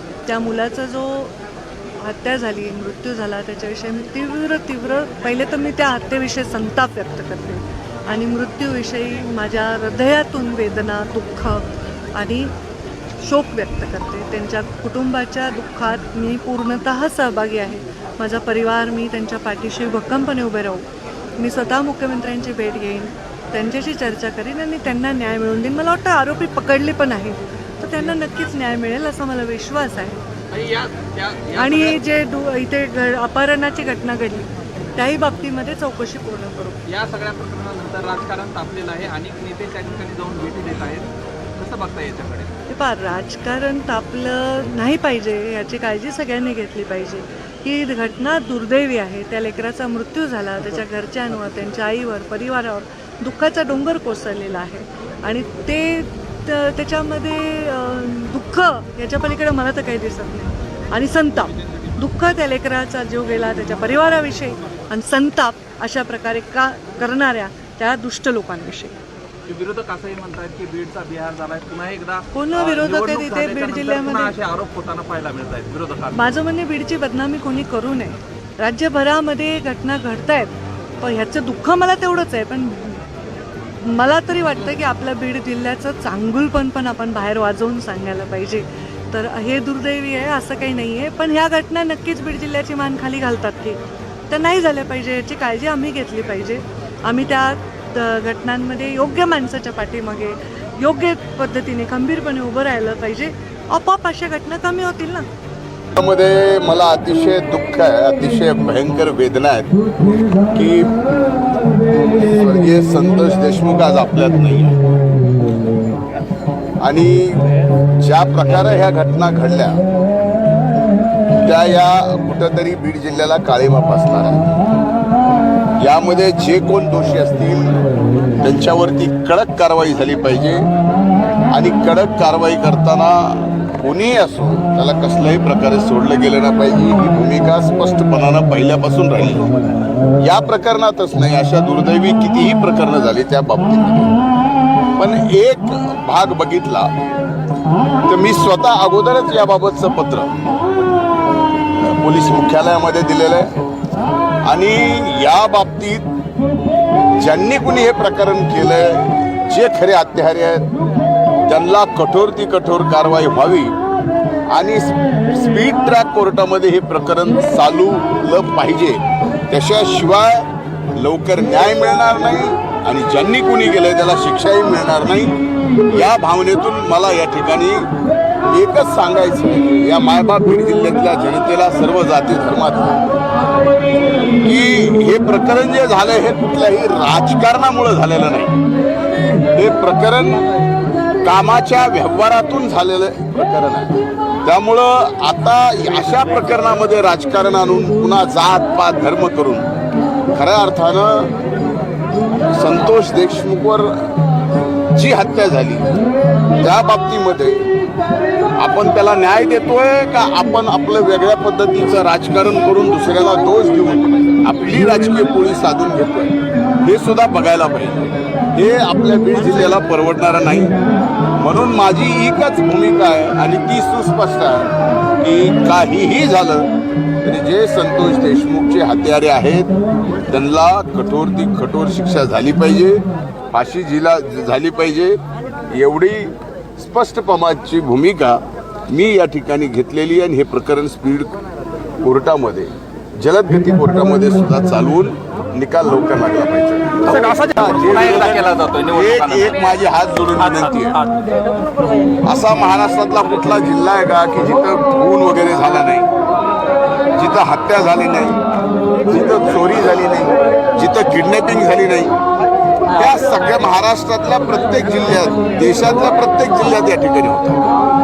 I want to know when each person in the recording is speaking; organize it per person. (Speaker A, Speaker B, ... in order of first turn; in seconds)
Speaker A: 0.2-1.4, 2.0-12.5, 13.2-20.9, 21.4-30.2, 31.6-36.8, 42.7-69.0, 72.3-74.3, 76.1-83.0, 83.8-105.3
Speaker B: 30.5-32.0, 36.9-42.5, 69.5-76.3, 247.0-249.8, 250.4-251.1
Speaker C: 105.9-109.8, 110.5-110.9, 112.2-114.8, 116.8-117.5, 118.0-119.8, 121.4-124.5, 125.8-127.8, 128.4-130.7, 131.5-139.6, 140.2-144.2, 145.0-146.9, 148.1-150.3, 151.8-153.5, 154.4-156.1, 157.2-160.7, 161.4-163.8, 164.5-175.3, 175.9-177.9, 178.5-183.0, 184.4-188.6, 189.5-190.4, 191.2-199.7, 200.3-201.3, 202.5-204.1, 204.9-205.9, 206.6-207.7, 208.6-220.8, 221.4-226.7, 227.2-229.7, 230.3-241.4, 242.0-251.0, 252.2-256.1, 257.1-258.4, 259.1-262.1, 262.9-267.6